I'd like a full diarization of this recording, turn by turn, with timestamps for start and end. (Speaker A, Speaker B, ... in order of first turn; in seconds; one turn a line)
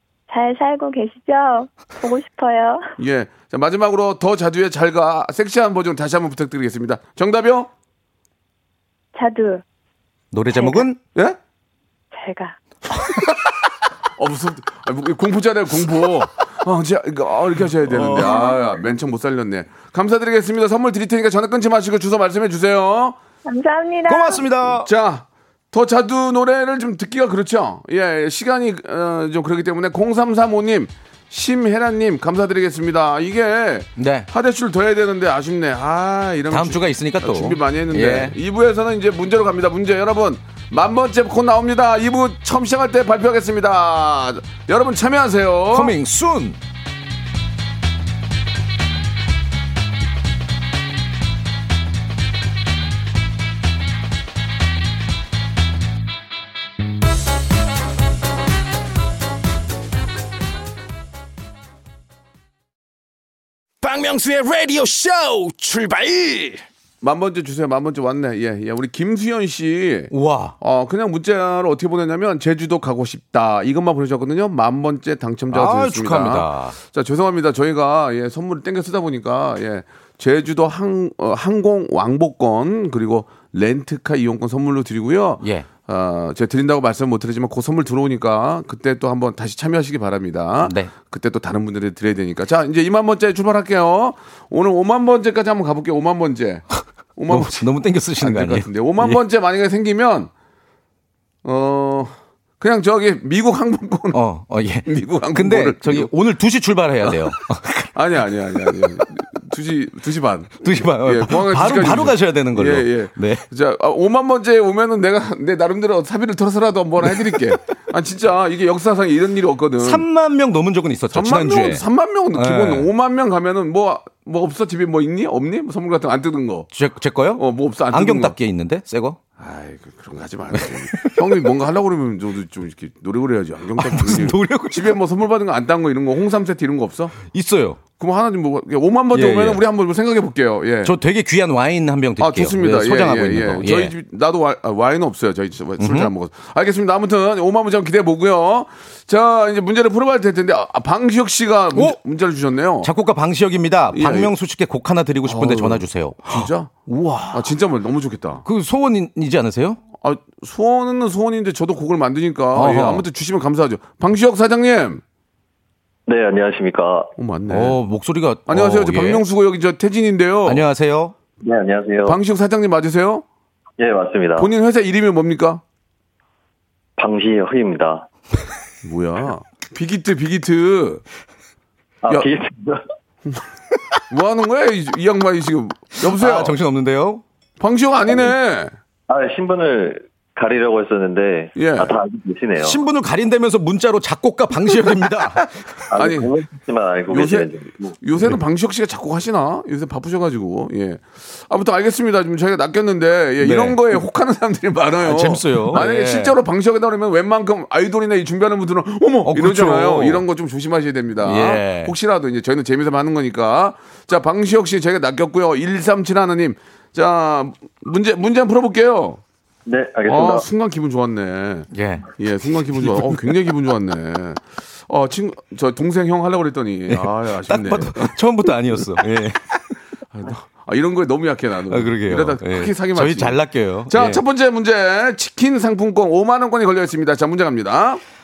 Speaker A: 0.3-2.9
Speaker B: 3.0-7.7
Speaker A: 9.2-9.6
Speaker C: 10.3-11.0
Speaker A: 12.1-12.6
Speaker B: 14.2-23.2
Speaker C: 17.9-18.3
Speaker A: 18.2-18.8
Speaker A: 23.5-24.5
Speaker C: 24.1-24.9
Speaker B: 24.8-45.9
Speaker C: 34.0-34.3
Speaker C: 36.5-38.4
Speaker C: 45.7-46.6
Speaker D: 63.8-66.6
Speaker B: 67.0-97.7
Speaker C: 70.1-70.5
Speaker C: 75.5-76.8
Speaker C: 85.4-85.7
Speaker C: 90.6-90.9
Speaker C: 97.3-99.2
Speaker B: 98.2-100.3
Speaker B: 101.4-104.2
Speaker C: 104.1-107.9
Speaker B: 104.8-106.1
Speaker B: 107.0-107.3
Speaker B: 107.9-120.0
Speaker C: 110.6-113.4
Speaker C: 119.8-121.8
Speaker B: 121.1-126.7
Speaker C: 122.3-122.9
Speaker C: 126.7-129.2
Speaker B: 127.4-128.3
Speaker B: 129.4-137.2
Speaker C: 130.5-131.3
Speaker C: 133.8-135.0
Speaker C: 137.3-137.8
Speaker B: 138.0-141.0
Speaker C: 139.1-139.6
Speaker C: 140.8-143.9
Speaker B: 142.2-152.9
Speaker C: 145.8-146.1
Speaker C: 152.8-157.5
Speaker B: 153.9-154.3
Speaker B: 155.2-156.7
Speaker B: 157.3-158.4
Speaker C: 158.4-159.8
Speaker B: 160.0-165.0
Speaker C: 162.5-163.1
Speaker E: 166.1-167.1
Speaker B: 167.2-167.8
Speaker C: 167.5-169.2
Speaker B: 168.5-170.7
Speaker C: 170.5-171.1
Speaker E: 171.4-172.2
Speaker B: 172.1-173.2
Speaker E: 173.8-174.5
Speaker B: 174.4-175.6
Speaker E: 177.0-178.1
Speaker B: 178.8-181.0
Speaker E: 182.0-182.8
Speaker B: 184.1-186.6
Speaker C: 186.1-187.2
Speaker B: 187.6-188.7
Speaker E: 189.1-192.8
Speaker B: 191.6-192.0
Speaker C: 192.6-195.5
Speaker E: 195.9-198.0
Speaker B: 195.9-196.3
Speaker B: 197.1-219.2
Speaker C: 203.4-203.8
Speaker C: 205.0-206.3
Speaker C: 209.3-210.2
Speaker C: 211.2-211.9
Speaker E: 219.7-220.4
Speaker B: 220.1-228.2
Speaker C: 221.7-222.1
Speaker C: 226.9-229.6
Speaker B: 230.1-233.4
Speaker C: 231.7-234.2
Speaker B: 233.9-238.0